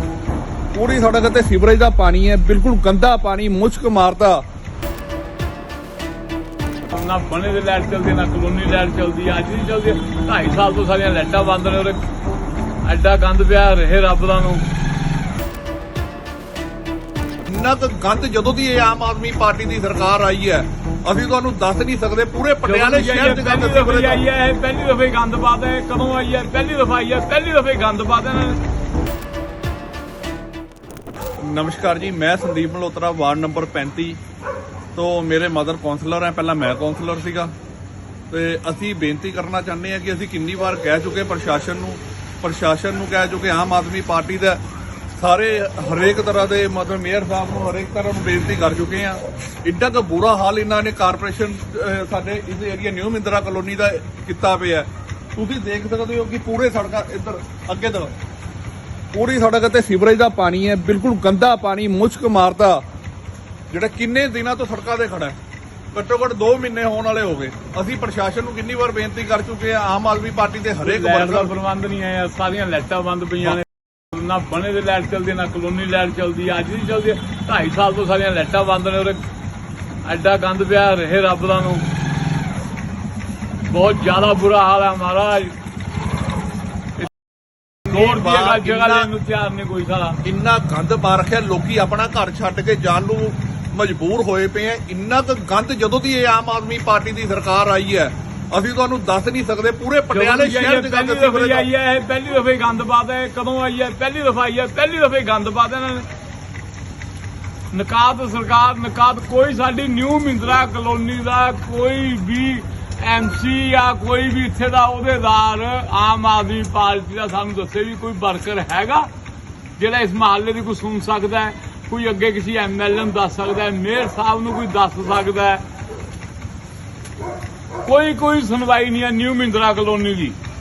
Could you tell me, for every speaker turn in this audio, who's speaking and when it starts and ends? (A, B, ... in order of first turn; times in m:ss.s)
0:00.7-0:04.4 A
0:06.9-0:12.0 B
0:12.8-0:14.6 B
0:17.5-0:24.2 A
0:22.6-0:28.6 B
0:31.4-0:34.2 A
0:35.0-0:37.5 A
0:38.3-0:44.6 A
0:45.2-0:58.1 A
0:59.1-1:02.8 A
1:03.7-1:05.4 A
1:05.9-1:11.5 A
1:10.8-1:19.2 B
1:20.0-1:21.9 B
1:23.7-1:25.6 B
1:27.9-1:30.2 B
1:27.9-1:29.1 A
1:30.2-1:41.7 A
1:40.1-1:46.1 B
1:47.7-1:59.1 B
1:59.8-2:05.6 B
2:07.8-2:10.4 B